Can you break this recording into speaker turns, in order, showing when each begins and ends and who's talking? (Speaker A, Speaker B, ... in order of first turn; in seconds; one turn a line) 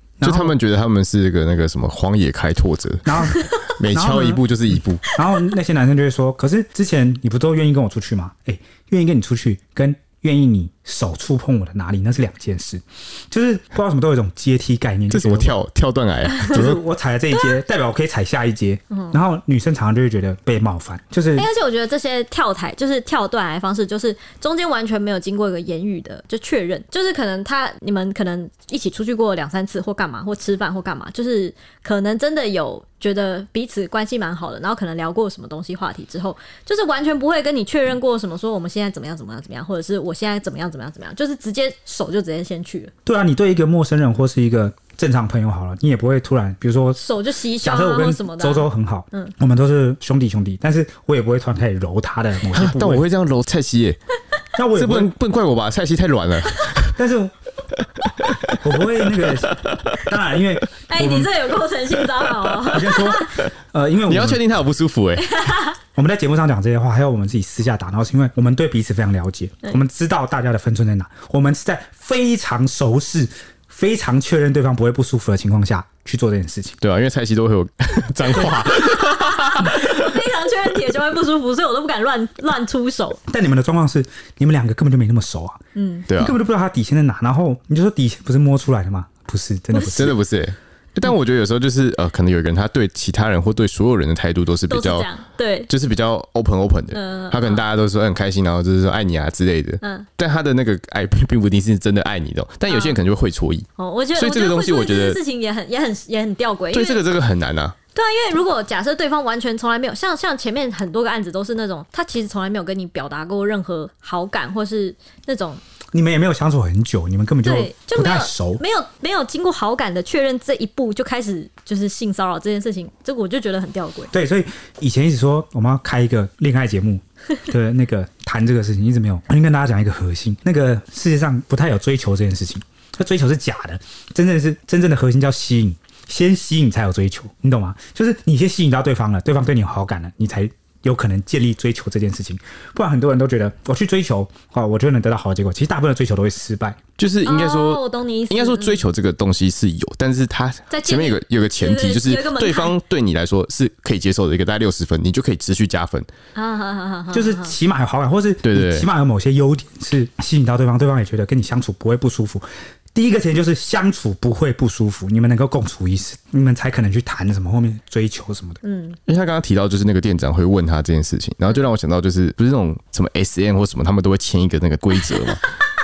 Speaker A: 0.2-0.6
Speaker B: 0.2-5.0
Speaker A: 3.1-15.6
Speaker C: 3.3-3.7
Speaker B: 15.1-16.8
Speaker A: 16.5-21.5
Speaker C: 18.9-19.2
Speaker C: 21.4-42.9
Speaker A: 43.0-47.0
Speaker C: 47.0-49.3
Speaker A: 47.5-53.1
Speaker B: 52.5-54.0
Speaker A: 54.6-55.1
Speaker B: 54.8-57.0
Speaker A: 57.0-57.4
Speaker B: 58.0-60.0
Speaker A: 58.6-61.4
Speaker C: 60.9-63.5
Speaker A: 62.7-64.4
Speaker B: 64.1-65.4
Speaker C: 65.2-65.8
Speaker A: 66.0-76.8
Speaker B: 76.8-80.1
Speaker C: 78.6-83.2
Speaker A: 83.3-85.6
Speaker C: 85.8-86.1
Speaker B: 86.1-86.4
Speaker A: 86.2-90.2
Speaker B: 89.8-95.1
Speaker C: 94.7-95.7
Speaker B: 95.7-105.2
Speaker C: 96.9-97.6
Speaker C: 99.8-100.1
Speaker C: 102.7-103.0
Speaker C: 103.8-107.0
Speaker B: 106.7-107.8
Speaker C: 107.9-115.6
Speaker A: 115.9-118.6
Speaker C: 117.4-124.1
Speaker A: 124.1-146.8
Speaker B: 147.0-156.1
Speaker C: 147.2-148.8
Speaker C: 150.7-152.8
Speaker C: 156.3-157.6
Speaker A: 157.1-168.6
Speaker B: 158.4-158.9
Speaker C: 168.6-169.0
Speaker B: 169.1-175.5